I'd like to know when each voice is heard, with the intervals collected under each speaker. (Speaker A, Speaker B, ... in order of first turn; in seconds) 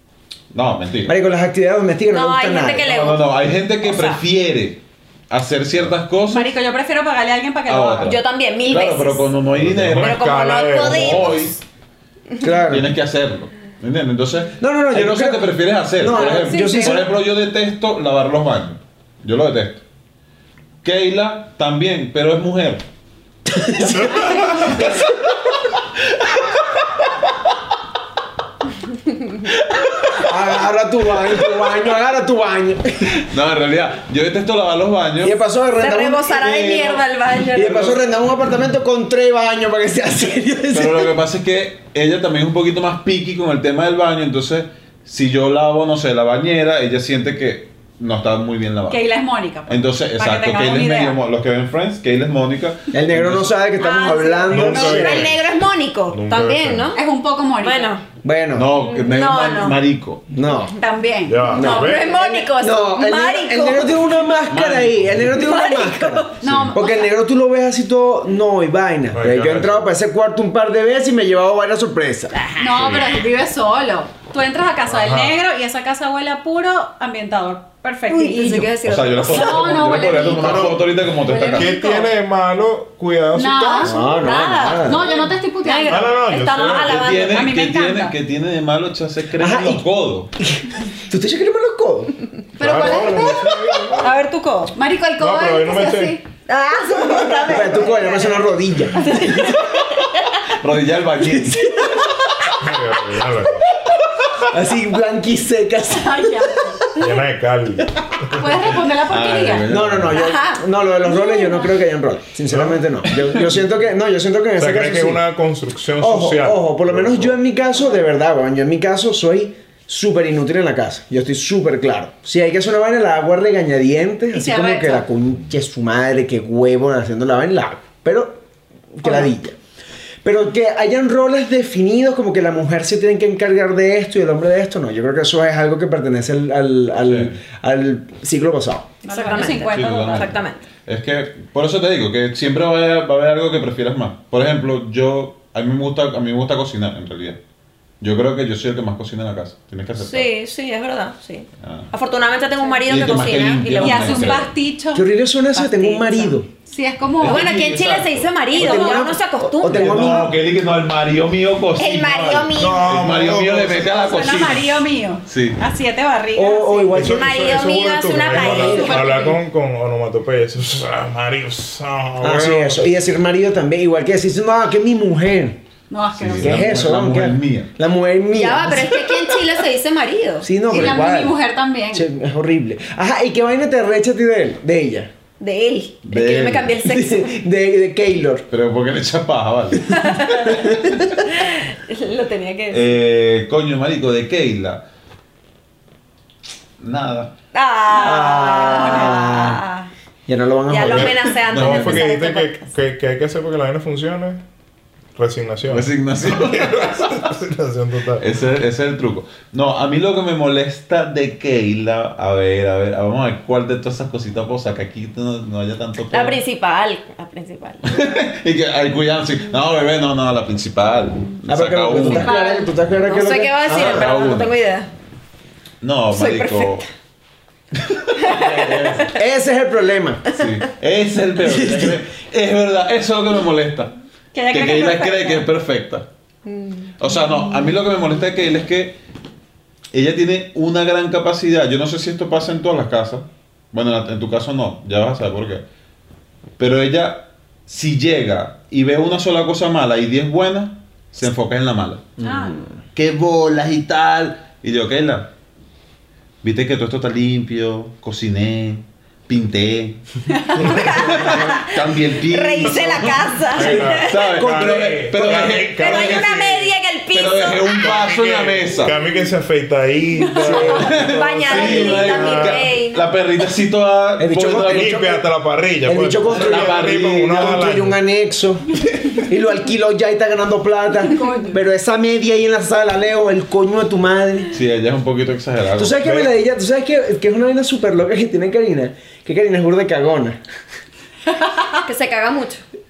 Speaker A: 0.5-1.2, 2.8-6.5, 7.7-10.2, 10.8-11.5, 12.7-19.8, 20.8-22.9, 24.6-25.0, 33.1-35.4, 40.7-49.0, 49.7-53.5, 58.5-60.2, 64.5-65.5, 66.4-66.7, 78.8-81.7, 86.7-90.3, 100.5-102.0, 109.1-110.2, 137.0-137.4, 139.4-147.4, 148.0-150.3, 151.6-151.9, 152.9-154.5, 157.2-158.3, 159.7-165.6, 176.2-177.7, 186.1-186.8, 188.5-191.0, 192.7-194.8, 196.8-197.3, 201.6-202.0, 205.7-207.2, 208.2-216.4, 217.8-222.3, 223.7-224.5, 225.8-226.8, 227.8-229.1, 230.3-233.9, 234.5-236.1, 237.0-239.0, 239.9-245.6, 246.6-252.3, 252.9-255.3, 256.4-260.0, 260.5-266.4, 267.1-269.0, 270.6-275.0, 276.3-277.5, 284.5-286.3
Speaker B: 1.1-2.9, 12.4-12.9, 14.6-17.1, 23.5-25.0, 30.2-33.2, 35.2-41.1, 52.9-55.4, 58.2-58.7, 60.3-60.7, 61.5-72.4, 83.8-85.2, 89.4-89.8, 90.4-92.1, 97.5-99.6, 104.5-106.7, 109.7-115.2, 116.0-128.4, 128.9-129.6, 130.2-138.9, 154.9-156.5, 158.6-160.4, 166.3-167.5, 168.3-168.9, 172.2-175.6, 176.3-179.4, 180.4-181.4, 181.9-185.1, 186.8-188.4, 198.0-199.6, 200.3-201.4, 221.5-224.1, 229.1-230.3, 231.4-232.0, 264.4-265.5, 270.4-272.1, 274.2-275.2, 275.9-284.6, 285.8-290.4
Speaker C: 2.1-3.3, 3.8-4.2, 8.0-9.2, 10.0-11.6, 35.8-38.0, 53.8-57.0, 57.6-58.0, 58.7-59.8, 61.5-64.0, 65.3-66.3, 72.4-73.0, 78.1-79.9, 81.3-82.1, 84.0-87.5, 94.0-94.7, 96.5-98.4, 99.0-100.4, 110.2-111.7, 139.0-140.6, 150.0-154.5, 157.2-160.3, 161.8-162.9, 167.1-169.1, 178.3-180.5, 185.4-187.3, 190.0-190.6, 191.2-193.0, 197.5-199.9, 200.7-202.7, 216.1-217.9, 222.3-224.9, 226.1-226.9, 228.2-229.1, 234.3-235.5, 236.5-236.9, 260.6-264.2, 265.8-267.9, 270.9-273.1, 291.8-292.6
Speaker D: 6.3-8.2, 16.2-17.1, 48.9-51.2, 56.9-58.0, 60.8-61.6, 66.4-67.1, 72.6-80.8, 83.3-84.0, 84.8-86.1, 87.2-88.2, 92.6-93.9, 94.8-96.2, 105.9-106.9, 108.3-109.7, 124.3-125.0, 139.0-140.4, 153.8-157.5, 158.6-159.0, 163.7-167.1, 168.3-169.4, 175.9-176.8, 180.7-182.1, 197.9-199.2, 222.0-222.7, 252.2-252.6, 260.3-260.7, 270.2-270.9, 281.1-281.6, 291.3-291.6
Speaker E: 9.5-11.5, 24.0-24.4, 54.5-55.5, 56.1-56.9, 61.3-62.1, 69.1-69.9, 74.9-75.4, 80.4-84.0, 85.9-87.1, 92.6-94.2, 95.2-96.2, 102.6-103.7, 107.0-108.7, 112.5-112.8, 114.6-117.4, 162.6-164.0, 166.9-172.9, 200.8-204.4, 205.2-208.2, 263.5-266.7, 267.8-272.7, 274.5-278.0